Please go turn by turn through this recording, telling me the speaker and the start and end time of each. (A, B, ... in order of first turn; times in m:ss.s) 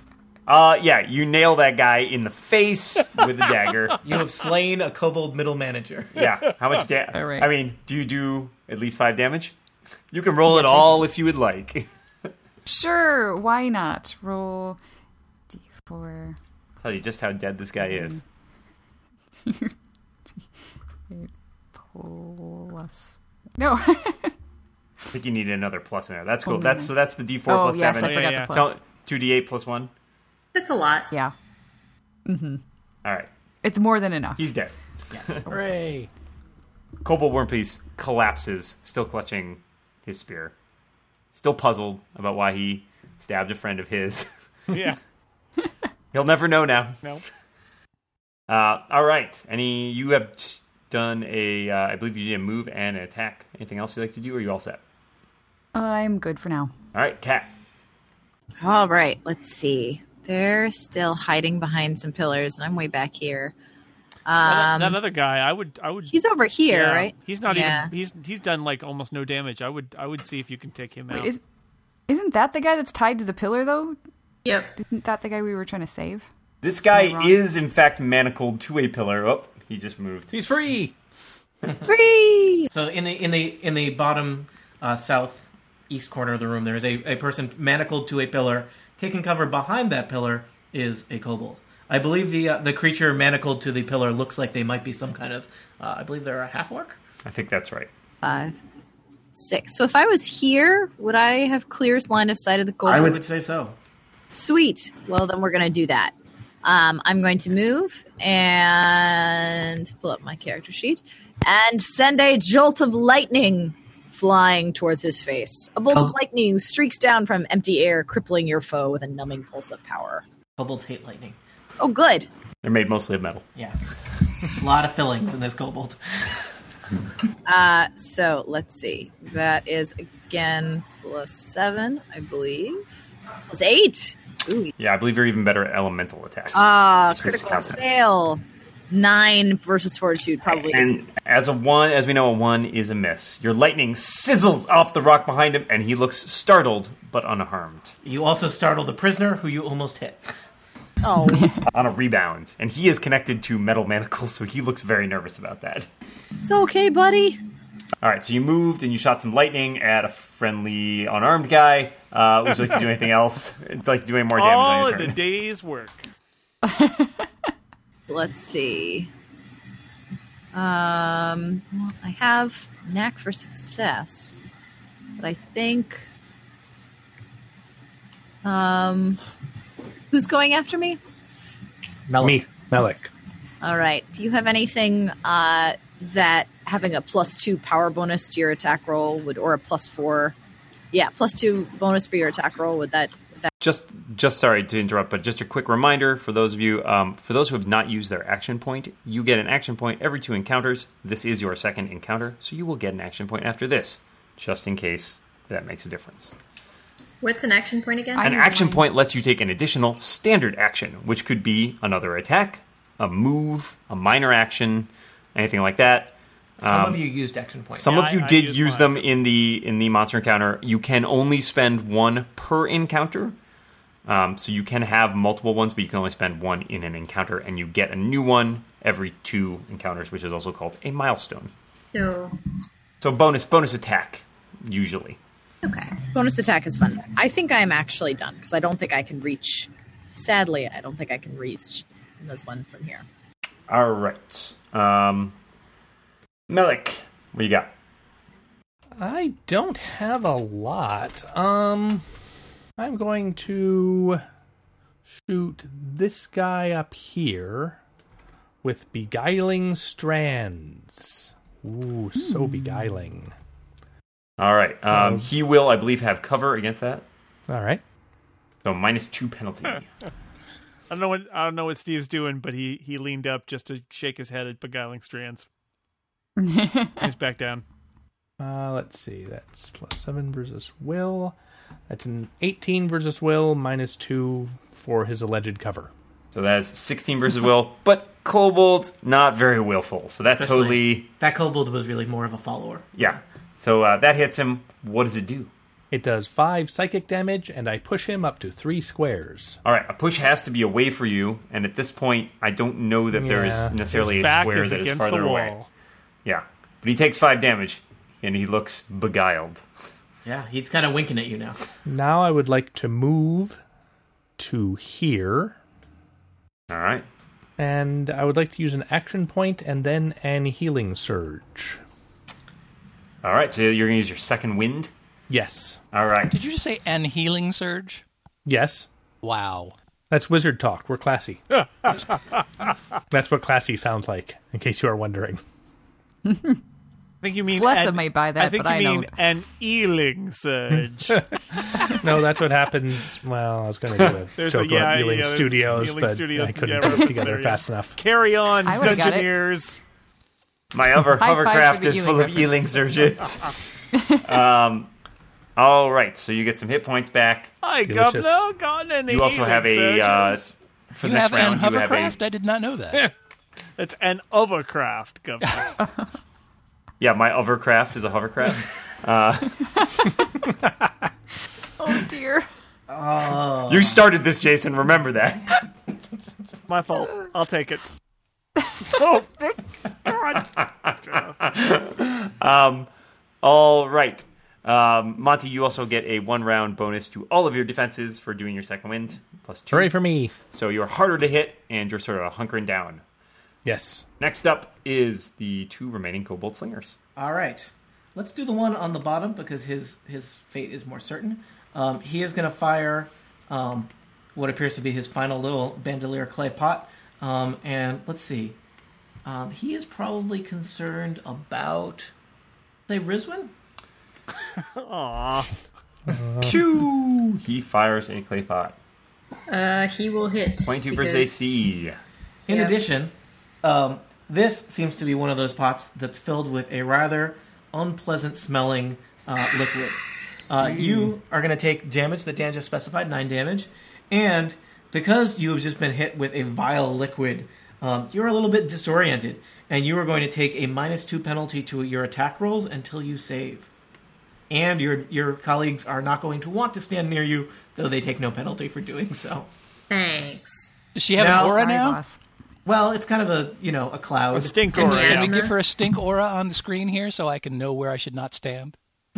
0:00.5-0:04.0 A
0:04.0-0:06.1 B
0:06.1-0:09.5 A
0:07.1-0:07.5 C
0:10.1-0:11.9 A
0:10.5-0:10.9 C
0:12.6-0:14.8 C
0:15.5-0:16.4 C
0:16.8-0:18.2 A
0:17.8-0:18.2 C
0:19.5-0:19.7 C
0:21.1-0:24.3 C
0:25.1-0:29.9 A
0:26.4-0:26.9 C
0:27.5-0:28.8 C
0:28.0-0:28.6 D
0:30.5-0:31.1 E
0:32.2-0:32.6 C
0:33.0-0:33.3 A
0:33.6-0:34.5 C
0:34.4-0:35.4 A
0:35.1-0:35.6 B
0:35.5-0:36.1 F
0:37.0-0:40.5 A
0:41.3-0:44.3 A
0:44.7-0:45.0 D
0:46.1-0:47.0 A
0:48.5-0:54.8 A
0:55.7-0:56.7 C
0:56.9-0:57.5 A
0:58.6-1:03.5 G
1:04.2-1:05.0 G
1:04.4-1:06.2 D
1:06.1-1:07.9 G
1:06.7-1:11.3 D
1:11.1-1:11.4 C
1:12.1-1:14.0 C
1:14.4-1:14.8 E
1:14.8-1:16.3 C
1:16.6-1:20.3 A
1:16.9-1:17.4 C
1:20.3-1:20.9 F
1:21.8-1:22.7 G
1:22.7-1:37.0 B
1:37.2-1:37.9 A
1:38.2-1:38.6 G
1:39.3-1:43.2 G
1:42.8-1:43.8 B
1:44.3-1:46.1 G
1:46.6-2:00.2 G
2:00.6-2:01.4 B
2:01.8-2:02.3 G
2:02.6-2:03.4 A
2:04.5-2:06.0 B
2:07.4-2:14.7 G
2:14.8-2:17.8 A
2:16.5-2:21.0 G
2:20.5-2:27.9 A
2:28.0-2:30.2 B
2:31.0-2:31.6 G
2:31.7-2:35.9 A
2:36.4-2:37.4 G
2:38.0-2:45.2 A
2:44.3-2:46.1 D
2:46.6-2:47.3 C
2:48.1-2:49.1 G
2:50.5-2:54.4 G
2:55.2-2:56.1 G
2:58.4-2:59.2 G
3:00.1-3:01.0 G
3:02.1-3:02.4 B
3:02.2-3:03.1 F
3:03.6-3:10.4 G
3:10.9-3:13.5 G
3:13.6-3:26.3 A
3:27.2-3:28.3 E
3:28.1-3:28.8 C
3:28.2-3:37.0 A
3:36.6-3:37.9 B
3:37.8-3:43.4 A
3:37.8-3:39.0 D
3:44.1-3:51.5 A
3:51.9-3:52.4 E
3:53.0-3:55.2 A
3:55.6-3:56.0 E
3:56.1-4:03.0 G
4:03.7-4:05.3 A
4:06.5-4:07.7 A
4:09.0-4:12.0 F
4:12.8-4:14.2 F
4:15.2-4:17.8 F
4:18.6-4:23.3 F
4:22.2-4:22.6 C
4:24.4-4:27.0 A
4:24.9-4:25.3 F
4:27.5-4:27.8 F
4:28.6-4:29.9 A
4:30.9-4:35.5 D
4:36.4-4:37.1 C
4:37.0-4:37.6 D
4:38.4-4:41.4 F
4:41.9-4:45.9 F
4:46.3-4:51.1 A
4:50.3-4:52.9 B
4:53.0-4:55.5 A
4:55.9-4:59.6 F
4:59.6-5:05.5 A
5:03.1-5:04.6 F
5:04.1-5:05.7 D
5:06.2-5:09.6 A
5:10.2-5:11.6 B
5:11.8-5:13.6 F
5:14.4-5:15.6 F
5:16.7-5:17.1 A
5:17.6-5:21.8 F
5:23.2-5:24.9 A
5:25.3-5:25.8 F
5:25.9-5:26.4 A
5:26.3-5:28.0 H
5:28.4-5:28.9 F
5:29.2-5:29.7 H
5:30.1-5:31.5 F
5:33.1-5:35.4 F
5:36.2-5:36.6 C
5:37.2-5:41.2 D
5:37.5-5:39.1 C
5:41.9-5:48.0 F
5:44.4-5:49.8 D
5:48.6-5:49.3 C
5:50.7-5:53.6 A
5:51.2-5:52.5 C
5:54.0-5:54.2 C
5:54.2-5:54.9 A
5:55.6-5:57.5 A
5:57.6-6:00.5 D
5:57.8-5:58.4 F
5:59.1-6:02.2 A
6:01.0-6:03.0 H
6:03.8-6:05.7 D
6:07.0-6:09.9 A
6:11.8-6:12.4 C
6:12.9-6:14.0 B
6:13.7-6:15.6 A
6:16.7-6:17.8 D
6:18.9-6:19.6 D
6:20.1-6:20.4 D
6:21.1-6:21.3 D
6:21.4-6:22.9 A
6:23.4-6:30.0 A
6:29.7-6:30.3 F
6:30.5-6:33.0 A
6:33.6-6:34.0 F
6:34.2-6:37.0 A
6:37.2-6:48.6 B
6:49.2-6:52.1 B
6:52.9-6:53.5 B
6:54.6-6:55.5 D
6:56.1-6:56.6 F
6:56.4-6:58.8 A
6:59.5-7:01.7 E
7:00.7-7:02.0 A
7:02.5-7:23.7 B
7:02.5-7:02.8 E
7:10.7-7:11.1 A
7:24.5-7:29.5 B
7:29.9-7:30.8 E
7:30.9-7:32.0 H
7:31.2-7:31.6 B
7:31.2-7:32.2 C
7:32.6-7:34.7 B
7:34.3-7:35.3 D
7:34.7-7:35.6 E
7:34.8-7:38.8 H